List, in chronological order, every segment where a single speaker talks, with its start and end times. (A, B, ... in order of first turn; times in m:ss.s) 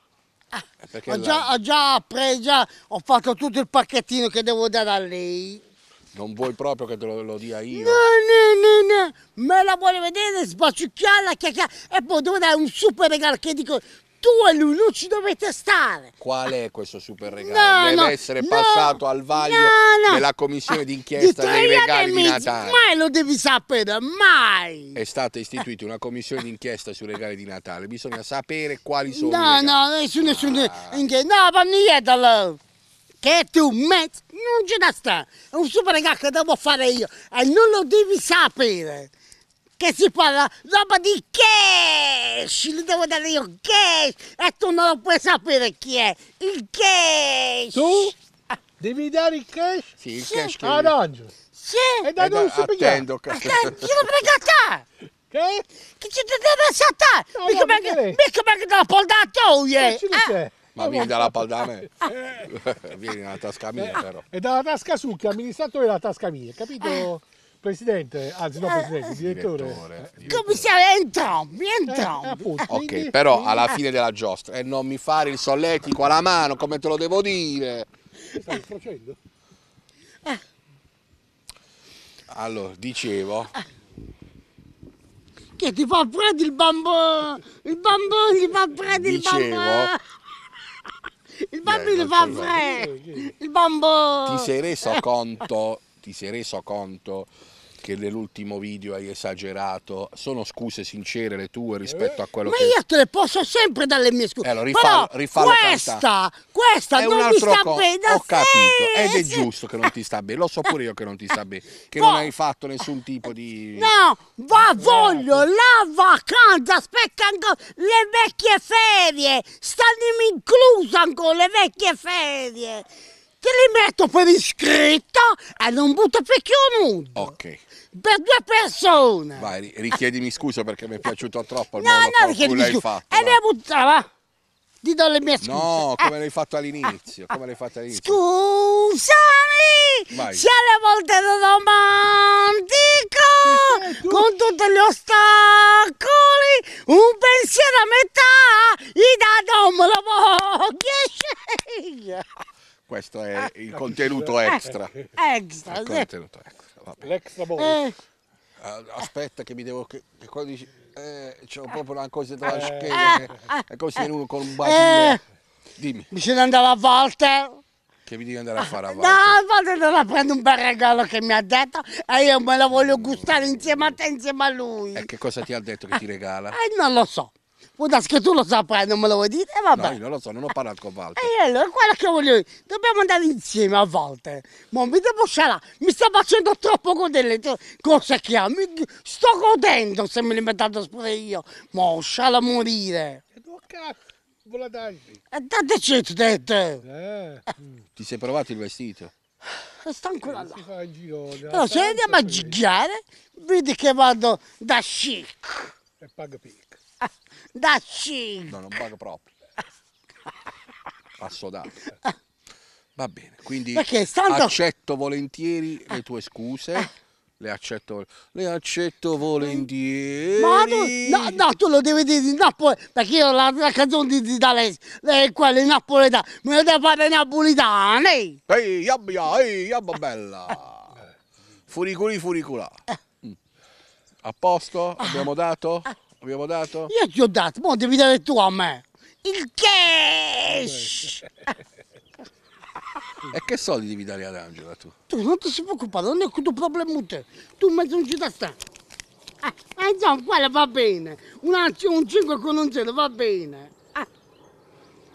0:00.5-0:05.6 A
0:00.8-0:01.5 B
0:06.1-0:08.0 B
0:07.7-0:16.1 A
0:16.2-0:22.8 B
0:17.3-0:25.0 A
0:25.0-0:31.1 B
0:29.1-0:32.6 A
0:33.2-0:39.1 A
0:39.8-0:48.0 A
0:47.7-0:48.1 C
0:48.8-0:49.9 C
0:50.0-0:51.0 B
0:50.2-0:50.6 A
0:50.6-0:51.4 C
0:51.6-0:52.1 A
0:52.0-0:53.1 C
0:52.2-0:53.9 B
0:53.3-0:54.9 A
0:55.3-0:55.7 C
0:56.0-1:01.3 A
0:57.4-0:58.2 C
0:59.8-1:00.6 C
1:00.8-1:04.2 B
1:02.1-1:02.5 C
1:03.8-1:10.6 C
1:06.8-1:07.1 A
1:08.6-1:09.2 A
1:09.2-1:10.6 B
1:10.3-1:12.6 A
1:11.9-1:13.7 C
1:12.7-1:17.9 B
1:18.3-1:19.2 C
1:22.3-1:23.5 B
1:25.6-1:30.0 A
1:28.8-1:29.9 B
1:31.5-1:35.0 A
1:31.6-1:32.5 B
1:32.2-1:33.3 C
1:34.2-1:42.8 B
1:41.9-1:42.2 C
1:42.4-1:49.5 A
1:44.4-1:46.0 B
1:47.0-1:53.9 B
1:52.0-1:52.3 A
1:53.8-2:02.9 A
1:54.6-1:55.5 C
2:03.4-2:07.3 A
2:07.2-2:07.6 B
2:07.9-2:09.5 A
2:09.4-2:13.4 B
2:11.8-2:14.1 A
2:14.8-2:16.1 A
2:15.4-2:18.2 B
2:17.9-2:32.3 A
2:20.1-2:20.4 B
2:23.4-2:24.3 C
2:32.9-2:34.9 B
2:33.8-2:35.1 C
2:35.2-2:36.1 A
2:35.7-2:37.1 B
2:37.0-2:37.8 C
2:37.6-2:38.0 A
2:38.6-2:45.2 B
2:42.5-2:43.3 C
2:42.9-2:44.1 A
2:44.6-2:45.2 A
2:45.8-2:46.1 B
2:46.1-2:47.6 A
2:48.1-2:49.4 B
2:48.6-2:55.1 A
2:52.7-2:54.0 B
2:55.0-2:56.6 B
2:56.5-3:00.0 A
2:59.7-3:01.3 B
3:01.2-3:13.2 A
3:13.3-3:15.2 C
3:15.3-3:16.8 A
3:16.8-3:17.8 C
3:18.0-3:19.1 B
3:19.6-3:20.6 A
3:20.3-3:22.6 C
3:21.5-3:25.7 A
3:26.0-3:26.8 C
3:27.5-3:28.6 A
3:28.5-3:29.3 B
3:31.2-3:31.7 B
3:33.0-3:41.4 B
3:33.7-3:34.6 A
3:40.4-3:48.4 A
3:48.5-3:51.0 B
3:51.7-3:53.4 B
3:54.2-3:56.9 B
3:55.0-3:55.3 A
3:56.9-4:01.2 A
4:00.5-4:01.1 C
4:03.3-4:04.9 B
4:05.1-4:08.6 A
4:09.4-4:14.1 A